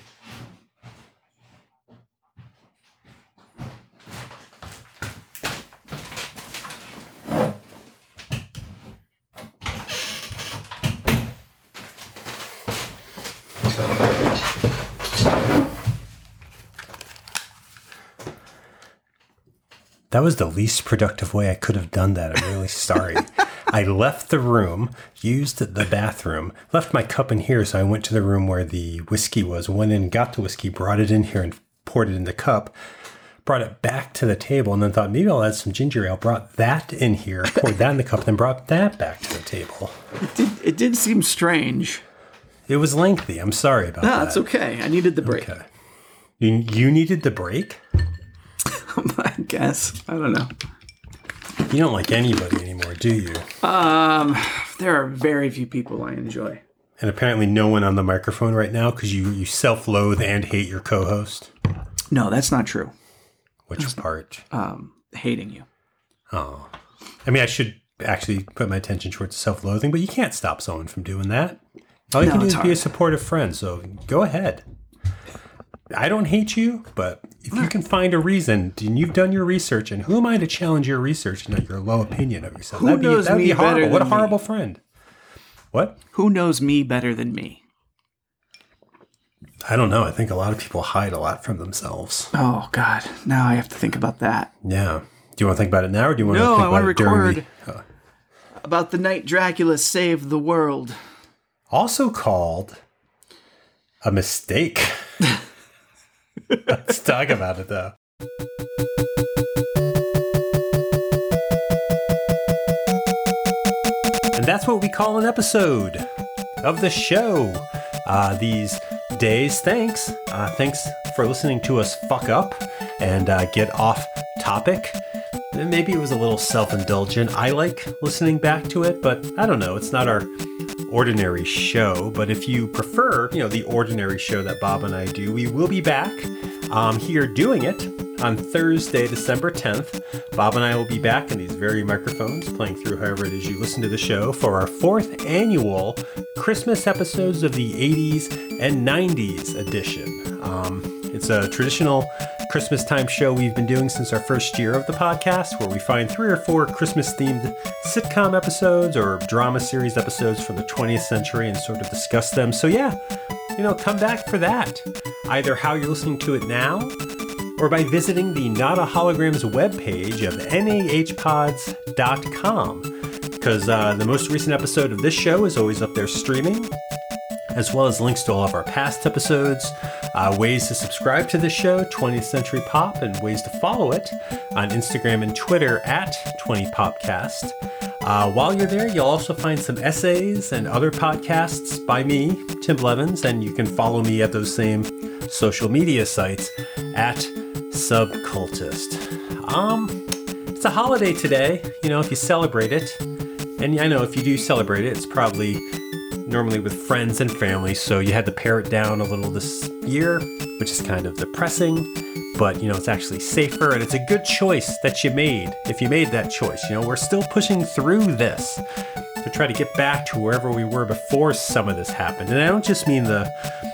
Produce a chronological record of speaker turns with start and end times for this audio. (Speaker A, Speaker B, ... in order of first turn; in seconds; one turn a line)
Speaker A: 20.1-32.7
Speaker A: 33.5-40.0
Speaker B: 40.2-42.0
Speaker A: 42.7-44.5
Speaker B: 44.0-45.5
Speaker A: 45.2-45.7
Speaker A: 46.4-47.8
Speaker B: 48.7-50.5
Speaker A: 51.7-53.5
Speaker B: 53.6-56.6
Speaker A: 57.0-61.5
Speaker B: 62.1-62.9
Speaker A: 63.7-64.5
Speaker B: 64.5-65.7
Speaker A: 66.3-66.7
Speaker A: 67.3-71.6
Speaker A: 72.1-74.6
Speaker B: 72.2-72.8
Speaker A: 75.9-84.8
Speaker B: 82.7-84.4
Speaker A: 85.7-86.0
Speaker B: 86.1-87.6
Speaker A: 89.7-92.3
Speaker B: 92.3-94.5
Speaker A: 94.6-97.8
Speaker B: 96.2-97.5
Speaker B: 98.6-101.0
Speaker A: 101.7-102.8
Speaker A: 104.0-105.0
Speaker A: 106.6-108.0
Speaker A: 114.3-116.0
Speaker A: 116.6-125.0
Speaker A: 125.5-130.3
Speaker A: 130.9-163.0
Speaker A: 163.6-167.0
Speaker A: 167.6-172.9
Speaker A: 173.4-176.7
Speaker A: 177.5-200.0
Speaker A: 200.5-203.0
Speaker A: 203.6-205.6
Speaker A: 206.3-218.6
Speaker A: 219.2-223.3